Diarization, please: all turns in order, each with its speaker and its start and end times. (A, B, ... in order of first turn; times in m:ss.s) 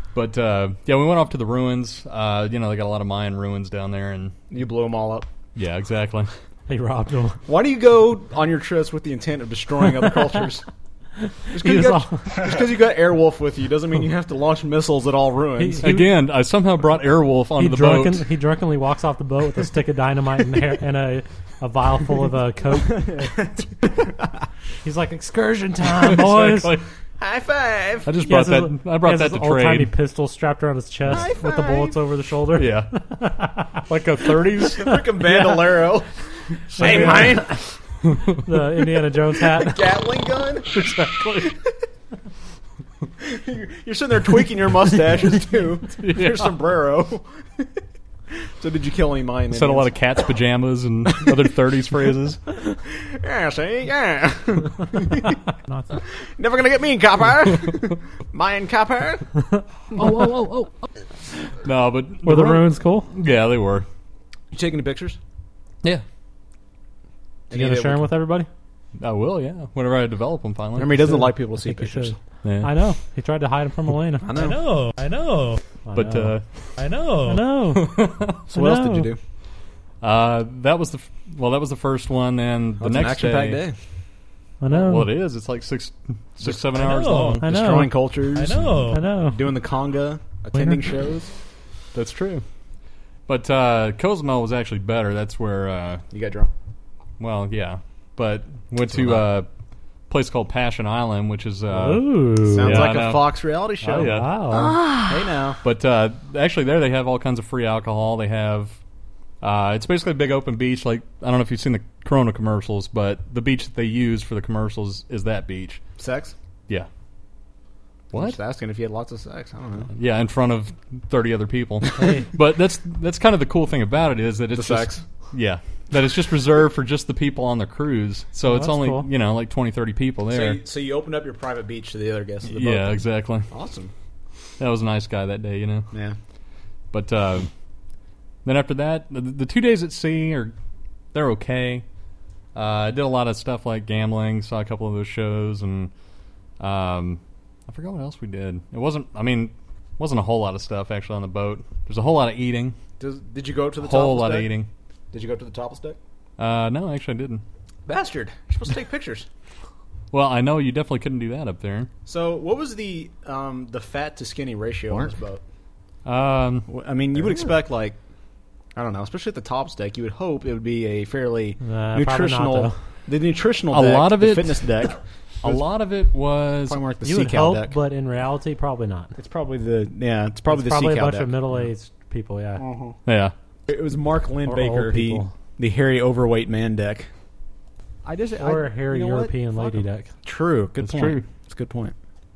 0:00.1-0:04.4 A
0:04.5-0:05.3 B
0:05.6-0:06.3 A
0:06.7-0:07.4 C
0:07.5-0:10.6 B
0:11.5-0:15.9 B
0:11.5-0:12.3 C
0:15.6-0:16.1 C
0:15.8-0:18.2 A
0:17.6-0:23.1 C
0:23.0-0:23.5 B
0:24.8-0:26.8 C
0:26.0-0:26.8 A
0:27.2-0:28.1 B
0:28.1-0:29.9 A
0:28.2-0:33.6 C
0:31.1-0:32.0 B
0:32.5-0:32.9 A
0:33.9-0:35.0 A
0:34.8-0:36.1 B
0:36.7-0:37.6 B
0:36.7-0:37.4 A
0:36.8-0:37.6 C
0:38.4-0:39.8 C
0:39.5-0:40.8 B
0:40.7-0:41.6 A
0:43.2-0:47.6 B
0:46.0-0:46.5 A
0:48.6-0:50.0 B
0:49.5-0:52.4 A
0:52.9-0:55.4 B
0:55.7-0:56.0 C
0:56.4-0:59.3 B
1:00.0-1:00.7 A
1:01.6-1:03.9 A
1:02.2-1:03.1 C
1:04.5-1:05.2 B
1:07.5-1:08.0 B
1:07.5-1:08.5 C
1:09.0-1:11.2 A
1:10.8-1:12.2 B
1:11.0-1:14.3 C
1:12.4-1:12.7 A
1:14.2-1:14.6 B
1:14.3-1:15.6 D
1:15.9-1:16.4 C
1:15.9-1:16.7 A
1:16.8-1:17.5 D
1:17.3-1:17.9 C
1:17.7-1:18.4 A
1:18.5-1:19.2 B
1:18.5-1:19.1 C
1:20.0-1:23.6 A
1:22.8-1:23.8 B
1:24.6-1:25.1 C
1:24.7-1:27.4 A
1:26.4-1:26.8 B
1:26.8-1:27.4 D
1:27.3-1:31.3 B
1:27.4-1:27.9 C
1:28.3-1:29.0 D
1:28.9-1:29.4 C
1:30.5-1:30.8 C
1:31.9-1:32.4 A
1:33.3-1:36.0 A
1:36.1-1:36.5 B
1:37.2-1:39.5 A
1:38.9-1:39.3 B
1:40.1-1:44.3 A
1:41.7-1:43.0 C
1:42.5-1:45.6 B
1:43.8-1:44.8 C
1:45.6-1:48.8 A
1:49.4-1:55.8 A
1:56.0-1:56.3 B
1:58.1-1:58.4 A
1:58.1-1:59.9 B
2:00.0-2:10.6 A
2:02.0-2:02.3 C
2:04.5-2:05.0 B
2:08.4-2:09.1 C
2:10.3-2:13.9 B
2:12.5-2:13.5 A
2:14.6-2:15.9 A
2:15.9-2:16.2 B
2:16.9-2:17.5 A
2:18.4-2:20.5 A
2:21.1-2:21.8 A
2:22.6-2:25.9 A
2:26.6-2:32.8 A
2:33.0-2:34.5 B
2:33.8-2:34.7 A
2:35.1-2:36.0 B
2:36.4-2:37.4 A
2:37.9-2:39.3 B
2:40.1-2:41.9 A
2:42.1-2:45.4 B
2:46.0-2:46.7 A
2:46.7-2:48.0 B
2:48.8-2:55.6 B
2:51.6-2:52.8 C
2:53.7-2:54.9 A
2:55.4-2:56.8 A
2:56.7-2:57.8 B
2:57.0-2:59.1 C
2:59.2-3:01.6 B
3:00.5-3:02.6 C
3:02.6-3:03.0 B
3:03.1-3:03.3 A
3:03.7-3:07.1 B
3:04.5-3:05.3 C
3:08.0-3:11.9 B
3:08.4-3:10.1 C
3:10.8-3:11.2 A